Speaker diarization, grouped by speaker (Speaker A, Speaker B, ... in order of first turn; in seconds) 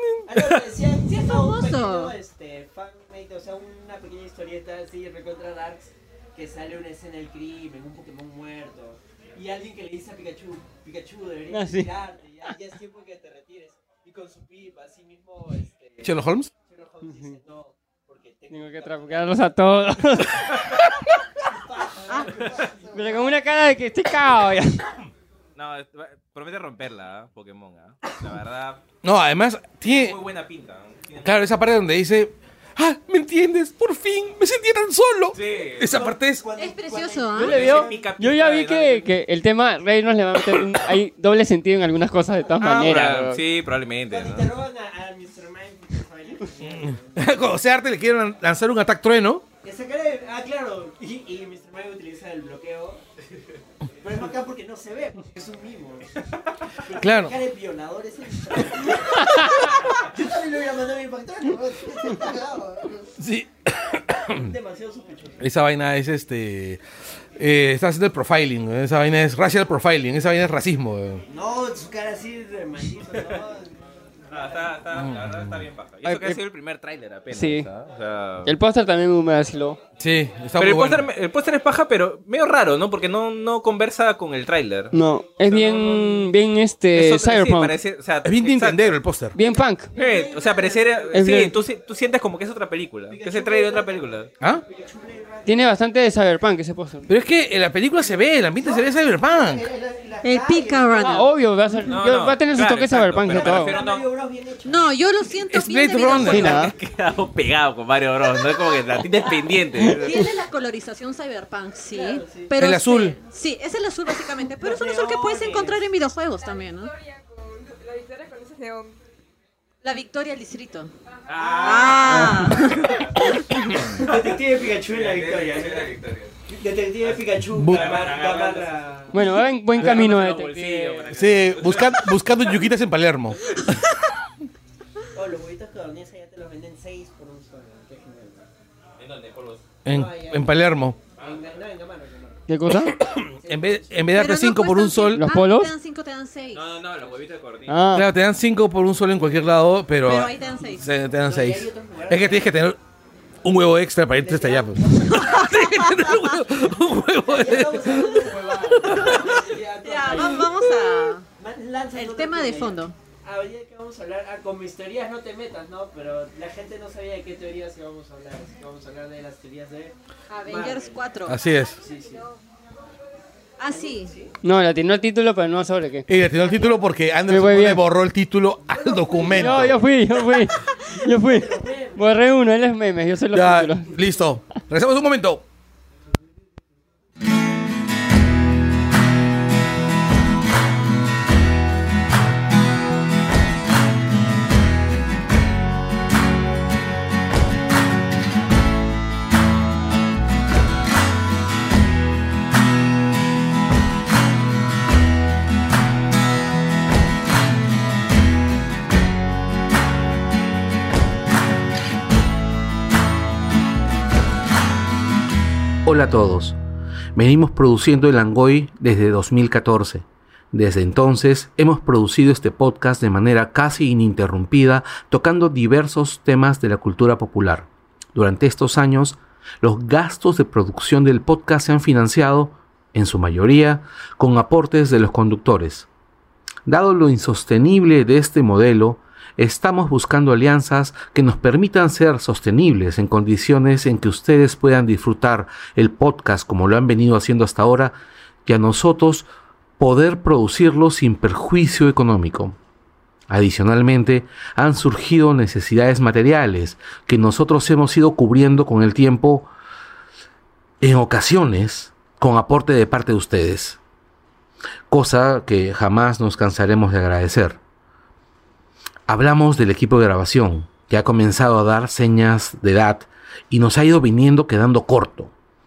Speaker A: 0.2-19.6, 21.4-23.4, 35.8-38.1, 44.1-47.4, 49.6-53.0, 54.0-56.2, 56.8-63.1, 64.3-65.5, 71.3-73.8, 74.3-74.6, 89.9-91.3, 93.1-95.8, 98.6-101.2, 103.3-105.0, 111.9-112.5, 114.5-115.9, 122.9-126.0, 126.5-129.2, 135.1-138.5, 139.8-140.6, 141.2-142.5, 143.4-144.3, 151.2-152.5, 154.2-155.5, 157.2-160.7, 161.3-171.1, 171.8-172.3, 173.7-174.3, 176.5-176.8, 178.7-180.2, 180.8-182.1
Speaker B: 1.1-2.1, 36.6-37.6, 100.2-101.3, 104.7-106.6, 109.8-116.9, 119.8-120.9, 121.6-123.2, 144.1-146.7, 150.0-150.9, 155.1-156.4, 158.9-161.2, 161.9-162.9, 170.3-171.4, 173.6-174.1
Speaker C: 11.5-11.9, 17.1-17.4, 18.5-20.7, 22.9-25.1, 37.4-43.4, 76.0-76.4, 77.3-77.7, 78.5-79.8, 84.9-87.8, 89.3-89.9, 91.1-91.6, 95.5-97.1, 101.0-103.8, 106.3-106.8, 109.8-110.2, 129.1-131.1, 142.5-143.0, 145.1-145.7, 147.7-148.1, 160.1-160.5, 174.4-176.1, 177.3-177.8, 179.3-183.9
Speaker D: 16.0-16.5, 29.0-30.2, 31.2-36.4, 46.6-49.4, 57.0-57.4, 63.2-64.5, 65.4-66.8, 67.4-71.2, 75.0-75.6, 80.0-81.1, 88.2-89.4, 97.1-99.7, 105.5-106.7, 112.6-113.2, 122.1-122.8, 127.5-128.0, 131.1-133.8, 139.8-141.0, 143.1-145.3, 147.9-152.8, 153.4-159.1, 171.3-171.8, 176.1-179.8, 183.3-185.4
Speaker E: 22.3-22.7, 25.6-28.8, 29.8-31.5, 35.3-36.0, 37.4-39.1, 42.6-44.5, 74.3-78.5, 80.6-85.0, 85.5-86.3, 86.9-89.0, 90.0-94.3, 101.8-104.1, 106.1-110.3, 121.3-124.1, 124.9-126.3, 127.0-128.9, 129.7-132.2, 139.0-139.6, 141.2-141.4, 146.5-147.7
Speaker F: 116.4-119.0, 171.4-172.4
Speaker G: 215.8-216.6, 217.2-235.9, 236.7-249.3, 249.8-252.6, 253.3-259.5, 260.8-263.8, 264.9-267.6, 269.1-275.3